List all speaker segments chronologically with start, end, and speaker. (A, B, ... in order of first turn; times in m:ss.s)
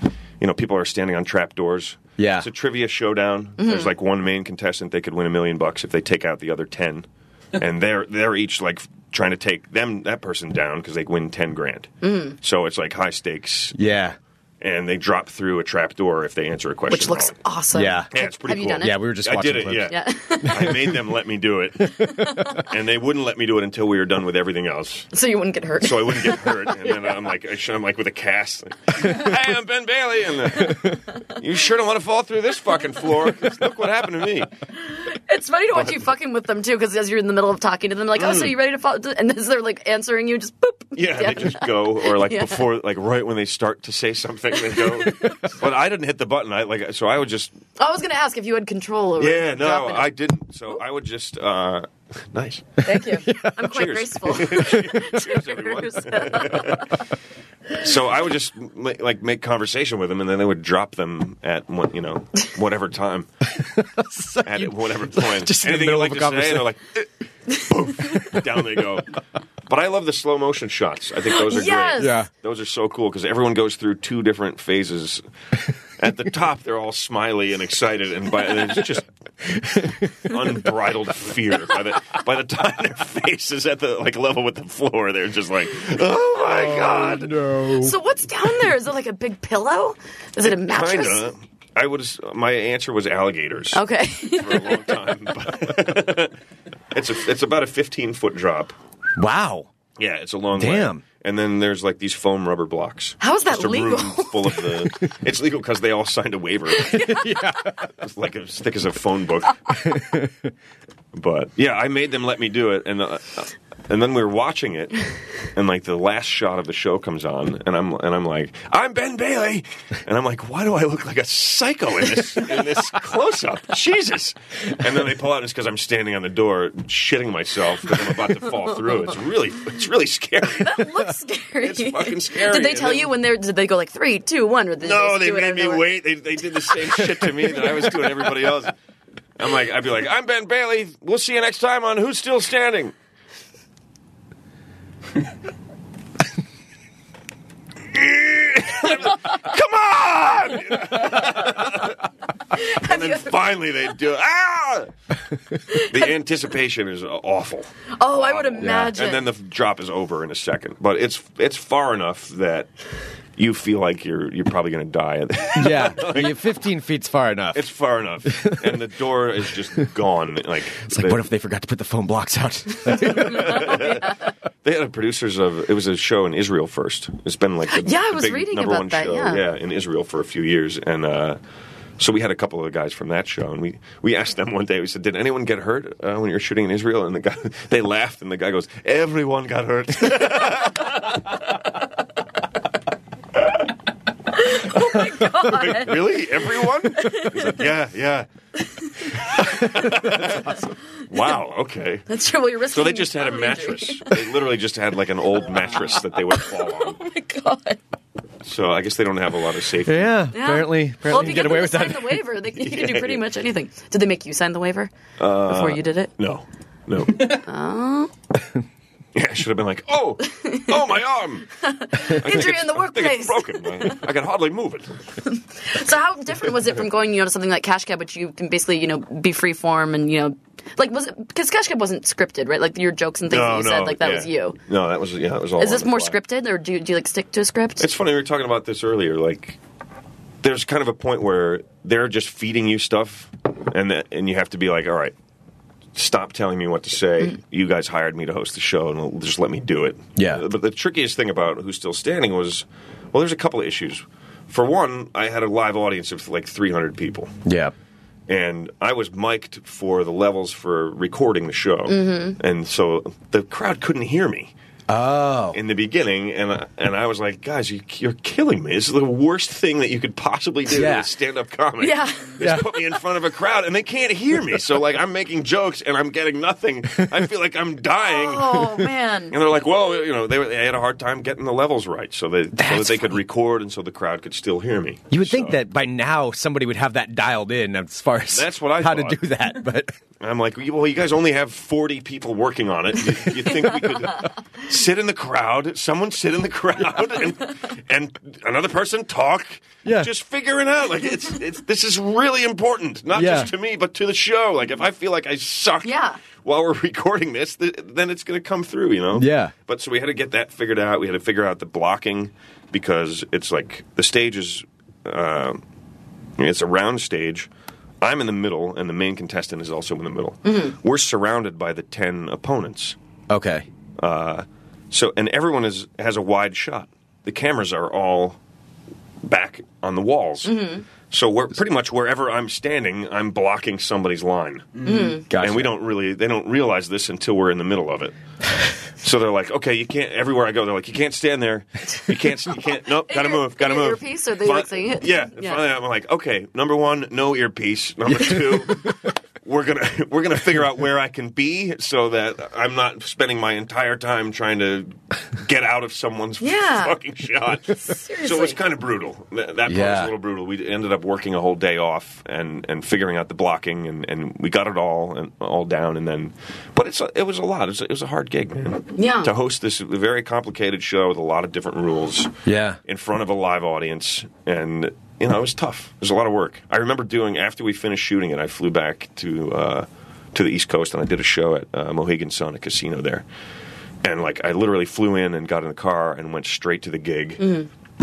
0:00.4-0:13.8 A
0:02.2-0:02.5 B
0:03.6-0:03.9 C
0:12.0-0:12.4 C
0:13.7-0:14.2 B
0:14.6-0:17.3 A
0:16.9-0:19.0 C
0:17.7-0:18.1 B
0:18.1-0:22.0 A
0:18.8-0:19.9 B
0:19.8-0:20.7 C
0:22.0-0:22.6 C
0:22.6-0:25.1 A
0:25.1-0:26.9 C
0:25.8-0:34.5 A
0:34.8-0:42.6 C
0:35.7-0:36.1 A
0:38.1-0:38.6 A
0:41.0-0:47.5 A
0:44.7-0:45.3 C
0:47.8-0:50.1 C
0:49.2-0:52.7 A
0:52.8-0:56.8 C
0:53.2-0:53.7 B
0:53.6-0:57.0 A
0:54.6-0:55.0 B
0:57.7-1:03.3 A
1:03.7-1:06.7 B
1:04.4-1:09.1 A
1:09.7-1:15.2 A
1:11.3-1:12.2 C
1:12.0-1:12.3 B
1:16.0-1:19.1 A
1:19.4-1:20.4 B
1:20.2-1:27.5 A
1:26.4-1:28.0 B
1:27.7-1:31.2 C
1:30.4-1:36.3 A
1:33.7-1:34.8 C
1:36.9-1:38.7 A
1:39.2-1:39.7 B
1:40.0-1:47.3 A
1:40.6-1:41.0 B
1:43.2-1:44.7 C
1:46.9-1:47.2 C
1:47.0-1:47.8 B
1:47.9-1:49.6 A
1:49.7-1:50.5 B
1:51.1-1:55.0 A
1:55.5-2:11.0 A
2:10.6-2:15.9 C
2:11.6-2:13.1 A
2:14.8-2:18.7 A
2:19.4-2:22.9 A
2:27.9-2:34.9 A
2:32.6-2:33.3 C
2:35.7-2:42.7 A
2:37.9-2:39.3 C
2:38.6-2:38.9 B
2:43.4-2:46.5 A
2:45.6-2:47.7 B
2:47.5-2:51.2 A
2:48.2-2:48.9 B
2:50.8-2:53.8 B
2:53.1-3:01.4 A
2:57.7-2:59.4 C
3:02.0-3:11.0 A
3:14.3-3:16.2 C
3:14.9-3:18.3 A
3:16.9-3:17.6 C
3:19.2-3:22.0 A
3:22.1-3:24.2 C
3:22.7-3:27.0 A
3:26.4-3:27.8 C
3:28.4-3:30.1 A
3:29.8-3:32.2 B
3:30.3-3:34.9 C
3:32.5-3:33.2 A
3:35.2-3:37.4 A
3:35.4-3:36.1 C
3:37.2-3:38.1 C
3:39.1-3:44.9 A
3:40.3-3:40.8 C
3:41.6-3:44.0 C
3:45.2-3:54.6 C
3:53.3-3:56.2 A
3:55.6-3:57.9 C
3:57.8-3:59.6 A
4:00.4-4:05.1 A
4:05.9-4:17.3 A
4:10.2-4:10.4 B
4:17.4-4:17.7 B
4:18.3-4:24.5 A
4:21.9-4:22.4 C
4:24.9-4:25.6 B
4:25.5-4:45.6 A
4:30.7-4:31.1 B
4:31.8-4:32.9 C
4:32.4-4:32.6 B
4:38.0-4:39.4 C
4:42.5-4:43.2 B
4:45.1-4:49.9 B
4:48.3-4:49.2 A
4:50.2-5:15.6 A
4:59.8-5:00.1 B
5:03.1-5:03.5 B
5:05.8-5:06.2 C
5:09.1-5:09.5 B
5:16.4-5:17.5 A
5:18.0-5:23.0 A
5:20.4-5:20.8 C
5:23.3-5:23.7 B
5:24.0-5:28.4 A
5:29.2-5:38.1 A
5:30.4-5:30.8 C
5:34.8-5:35.2 C
5:35.3-5:35.8 B
5:39.0-6:23.2 A
5:43.0-5:45.6 C
5:56.4-5:57.0 C
5:57.6-5:58.6 C
5:59.6-6:00.1 B
6:09.0-6:09.3 C
6:12.4-6:12.8 B
6:24.0-6:27.6 A
6:27.4-6:27.7 C